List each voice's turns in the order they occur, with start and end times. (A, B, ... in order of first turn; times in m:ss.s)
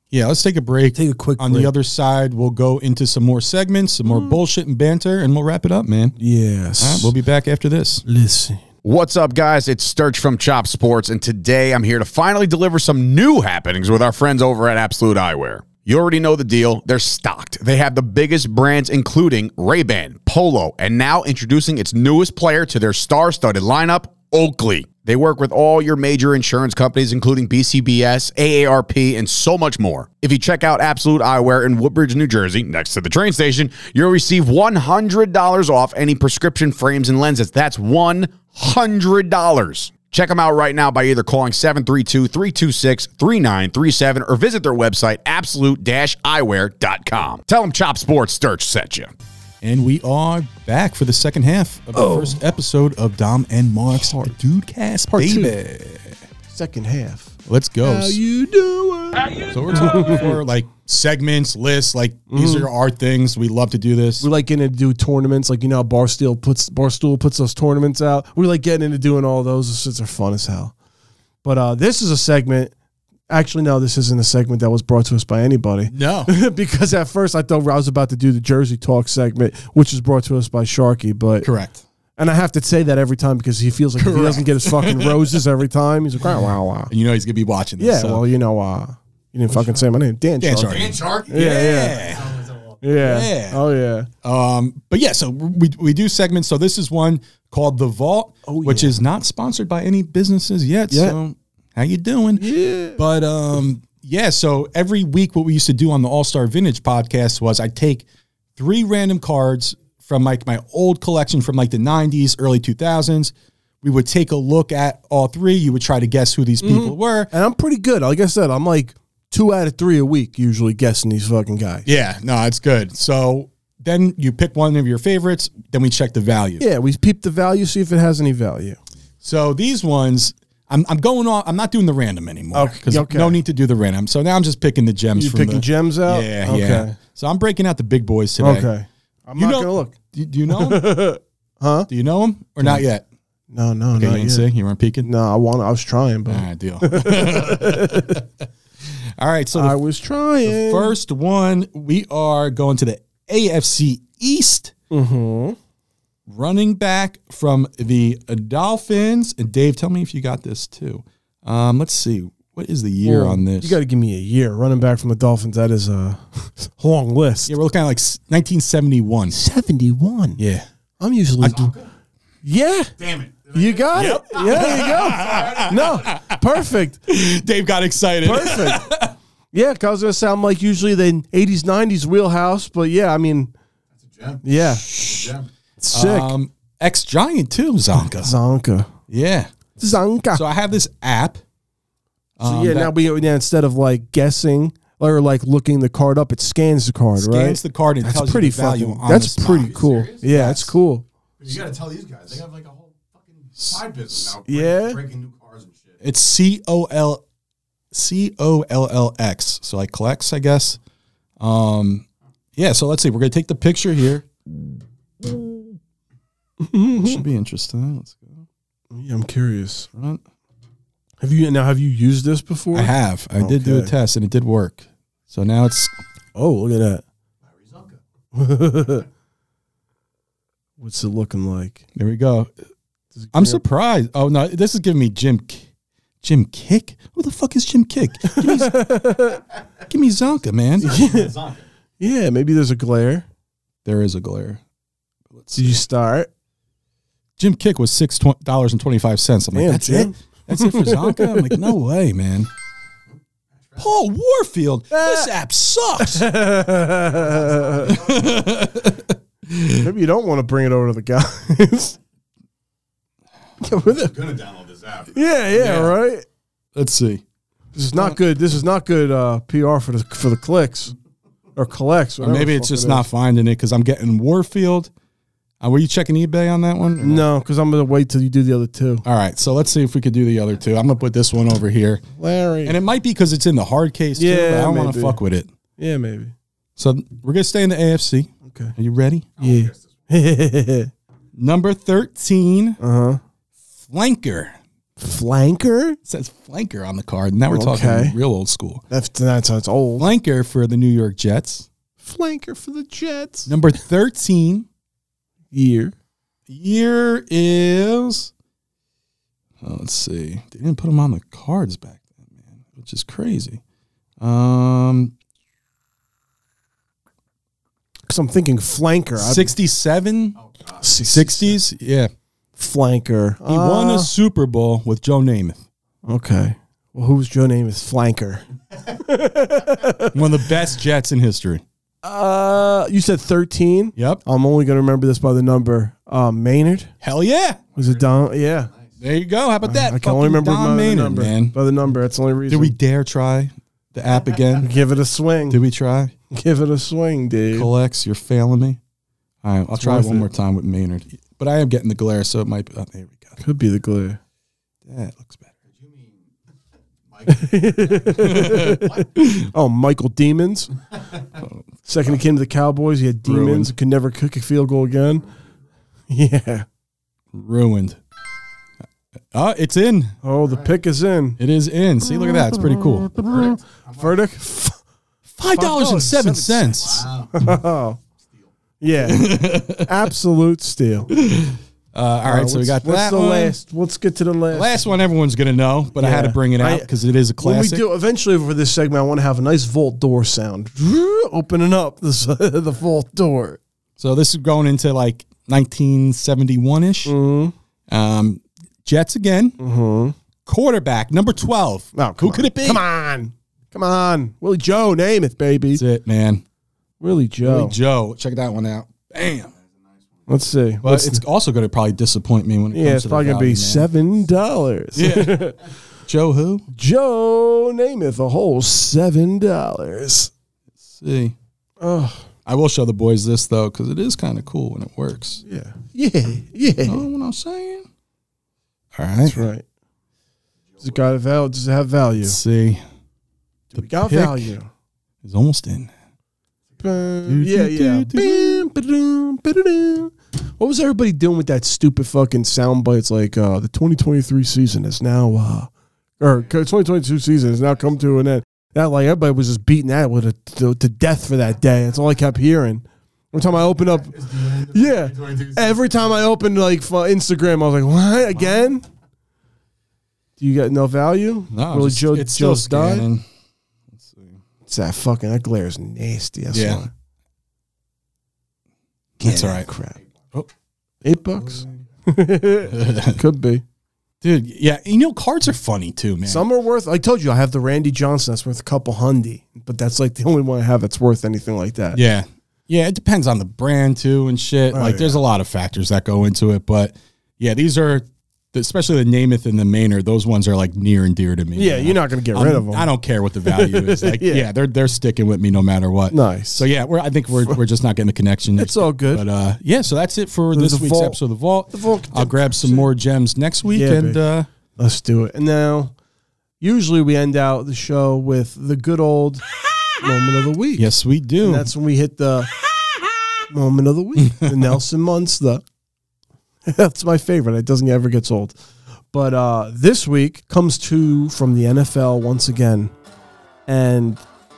0:00.1-0:06.2 A
0:00.9-0:01.7 B
0:04.1-0:04.4 B
0:06.2-0:07.1 B
0:06.8-0:08.0 A
0:08.1-0:08.6 B
0:08.8-0:49.1 C
0:49.6-0:56.2 A
0:51.9-0:52.4 B
0:53.9-0:54.3 B
0:55.1-0:55.6 B
0:56.5-1:00.4 B
0:57.5-0:58.2 A
0:59.5-1:04.3 A
1:02.3-1:02.7 B
1:04.2-1:10.8 B
1:11.4-1:12.7 B
1:13.3-1:21.5 B
1:15.9-1:16.3 A
1:21.4-1:21.8 A
1:22.2-1:26.9 B
1:24.0-1:25.4 A
1:26.9-1:28.2 A
1:27.8-1:32.0 B
1:30.4-1:32.4 A
1:30.7-1:32.7 D
1:32.8-1:34.1 B
1:33.0-1:33.6 A
1:34.2-1:48.0 A
1:38.5-1:39.0 B
1:40.9-1:41.2 B
1:42.4-1:43.0 B
1:48.6-1:57.3 A
1:56.6-2:01.9 B
2:01.9-2:06.6 A
2:06.6-2:08.8 B
2:09.2-2:18.7 A
2:12.5-2:13.4 B
2:15.2-2:17.0 B
2:18.4-2:20.0 B
2:19.4-2:21.0 A
2:20.5-2:21.9 B
2:21.9-2:23.0 A
2:23.5-2:24.5 B
2:24.0-2:25.1 A
2:25.0-2:28.2 B
2:26.3-2:28.2 A
2:29.2-2:29.8 A
2:29.6-2:31.0 B
2:30.4-2:34.7 A
2:34.9-2:35.6 B
2:36.3-2:43.8 A
2:43.0-2:47.5 B
2:47.5-2:49.4 A
2:49.3-2:50.4 B
2:50.4-2:50.7 A
2:51.0-2:51.7 B
2:51.4-2:51.9 D
2:52.4-2:52.9 B
2:53.0-2:56.1 D
2:53.5-2:57.0 B
2:53.9-2:59.1 A
2:58.2-2:58.9 B
2:59.5-3:03.5 B
3:04.1-3:05.5 D
3:04.4-3:06.4 B
3:05.9-3:08.3 A
3:08.2-3:08.9 B
3:09.1-3:09.5 A
3:09.8-3:10.4 B
3:10.3-3:11.4 A
3:12.4-3:12.9 A
3:12.4-3:21.0 B
3:17.2-3:19.7 A
3:19.4-3:20.2 D
3:20.2-3:20.8 A
3:21.4-3:26.0 D
3:24.5-3:25.0 B
3:26.0-3:27.2 A
3:27.9-3:30.8 A
3:31.4-3:32.0 A
3:32.6-3:34.3 A
3:36.6-3:37.2 B
3:37.0-3:38.4 A
3:38.9-3:39.9 B
3:39.9-3:40.2 A
3:41.2-3:43.9 B
3:42.7-3:46.0 A
3:46.4-3:47.0 B
3:47.6-3:48.0 D
3:48.3-3:49.1 B
3:50.8-3:51.8 B
3:52.0-3:52.5 A
3:53.2-3:53.6 B
3:53.3-3:55.6 A
3:56.2-3:58.8 A
3:58.3-3:59.4 B
3:59.9-4:01.0 A
4:00.8-4:01.3 B
4:00.8-4:01.6 D
4:02.0-4:03.3 B
4:03.8-4:04.6 A
4:05.3-4:05.8 A
4:05.6-4:06.3 B
4:07.4-4:12.5 A
4:09.5-4:11.7 B
4:13.8-4:16.3 A
4:14.9-4:15.3 B
4:16.0-4:18.0 B
4:17.1-4:18.3 D
4:17.9-4:19.9 A
4:19.8-4:22.0 B
4:23.6-4:24.2 B
4:23.9-4:25.2 D
4:25.1-4:26.2 B
4:25.5-4:26.0 A
4:26.8-4:27.2 A
4:27.8-4:30.9 B
4:31.6-4:33.0 B
4:32.2-4:34.9 A
4:35.6-4:37.3 A
4:37.0-4:39.0 B
4:39.0-4:42.0 A
4:42.2-4:42.8 B
4:42.6-4:45.5 A
4:44.2-4:45.2 B
4:45.8-4:46.3 B
4:46.8-4:49.3 A
4:48.5-4:48.8 B
4:49.4-4:50.9 B
4:49.4-4:49.7 D
4:51.4-4:52.8 A
4:52.8-4:53.2 B
4:53.9-4:54.6 A
4:55.0-4:56.0 B
4:56.1-4:58.8 A
4:57.5-4:58.2 B
4:58.9-5:00.1 B
5:00.0-5:01.7 A
5:02.0-5:03.5 B
5:03.5-5:04.7 A
5:05.5-5:05.9 B
5:06.5-5:08.3 A
5:09.6-5:13.6 A
5:14.2-5:15.1 A
5:18.1-5:19.5 B
5:19.2-5:20.4 A
5:20.8-5:21.6 B
5:21.1-5:22.1 A
5:22.6-5:24.1 B
5:23.5-5:25.6 A
5:26.0-5:30.5 B
5:30.1-5:31.6 A
5:32.0-5:36.9 B
5:34.0-5:34.2 A
5:37.0-5:37.6 A
5:37.8-5:38.7 B
5:39.0-5:41.6 A
5:39.6-5:42.7 B
5:42.5-5:44.8 A
5:44.6-5:45.6 B
5:45.5-5:46.1 A
5:46.3-5:47.7 B
5:47.5-5:48.8 A
5:49.4-5:53.4 A
5:49.8-5:50.3 B
5:53.4-5:54.2 B
5:54.9-5:55.5 A
5:57.1-5:59.0 D
5:57.3-6:00.7 B
5:58.2-5:59.5 A
6:01.4-6:02.2 A
6:01.9-6:05.2 B
6:03.2-6:03.7 A
6:06.1-6:06.6 B
6:07.3-6:08.0 A
6:09.3-6:10.2 A
6:10.2-6:11.4 B
6:11.4-6:13.2 A
6:13.2-6:14.8 B
6:15.4-6:17.1 A
6:15.4-6:18.0 B
6:16.9-6:17.3 D
6:18.8-6:21.1 B
6:19.0-6:20.0 A
6:21.1-6:23.6 A
6:22.2-6:24.8 B
6:24.5-6:27.8 A
6:26.0-6:33.6 B
6:34.0-6:37.2 A
6:37.0-6:37.5 B
6:37.9-6:39.6 A
6:39.6-6:40.2 B
6:40.5-6:42.8 A
6:42.0-6:45.8 B
6:45.8-6:46.4 A
6:47.0-6:47.8 B
6:47.4-6:49.5 A
6:50.3-6:51.2 B
6:50.8-6:53.9 A
6:52.7-6:55.6 B
6:55.0-6:55.5 A
6:56.1-6:56.7 A
6:56.7-7:00.3 B
7:00.8-7:01.4 A
7:01.8-7:02.2 B
7:02.5-7:05.4 A
7:05.4-7:07.0 B
7:06.9-7:07.8 A
7:09.0-7:09.5 A
7:09.2-7:09.6 B
7:10.8-7:12.4 B
7:12.2-7:12.8 A
7:13.7-7:14.7 B
7:13.8-7:14.4 A
7:15.2-7:15.9 A
7:16.8-7:38.9 B
7:17.3-7:18.6 A
7:34.0-7:35.8 D
7:40.4-7:43.1 B
7:41.5-7:43.2 A
7:43.9-7:44.4 A
7:44.7-7:46.9 B
7:46.5-7:46.9 A
7:49.2-7:50.0 B
7:49.2-7:49.7 A
7:51.0-7:53.6 B
7:52.7-7:53.2 A
7:54.2-7:56.5 A
7:56.3-8:02.0 B
8:01.9-8:24.5 A
8:04.7-8:05.2 B
8:11.6-8:12.9 B
8:13.5-8:14.5 B
8:16.1-8:16.7 B
8:18.6-8:19.2 B
8:20.5-8:22.9 B
8:23.7-8:24.2 B
8:24.8-8:25.9 B
8:26.6-8:29.4 B
8:30.0-8:30.9 B
8:30.8-8:31.7 A
8:31.4-8:32.5 B
8:33.5-8:35.6 B
8:34.3-8:34.6 A
8:36.7-8:38.6 B
8:39.1-8:42.9 B
8:43.7-8:44.2 B